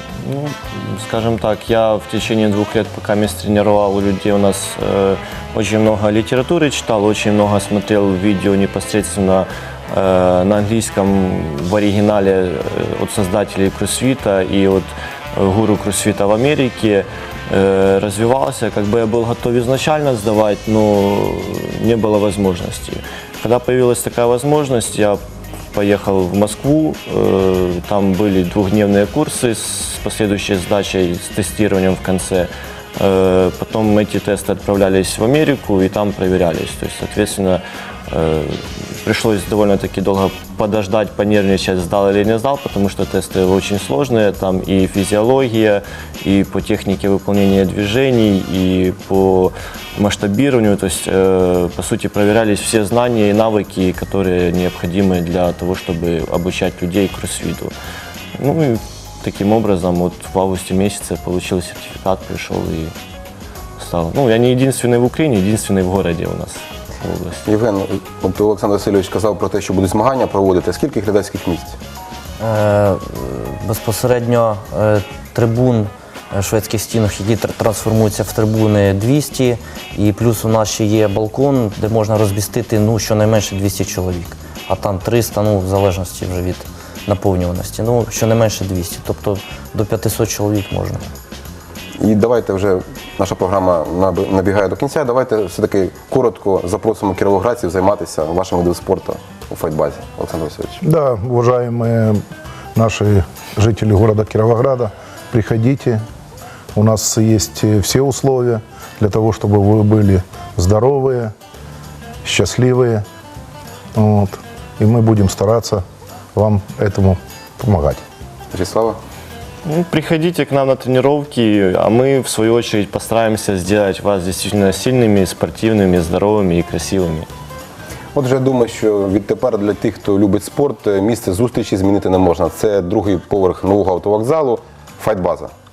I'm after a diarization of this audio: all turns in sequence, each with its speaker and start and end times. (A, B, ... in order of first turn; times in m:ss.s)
0:00.2-0:25.2 A
0:25.7-0:57.7 A
0:58.4-1:02.9 A
1:03.8-1:07.5 A
1:07.4-1:11.8 B
1:12.4-1:31.1 C
1:32.0-1:40.8 B
1:40.8-1:42.2 D
1:42.7-1:46.0 D
1:46.7-1:51.3 D
1:52.2-1:53.0 D
1:53.9-1:55.8 D
1:56.3-1:58.0 D
1:58.5-1:59.0 B
1:59.6-2:07.3 A
2:08.1-2:15.5 B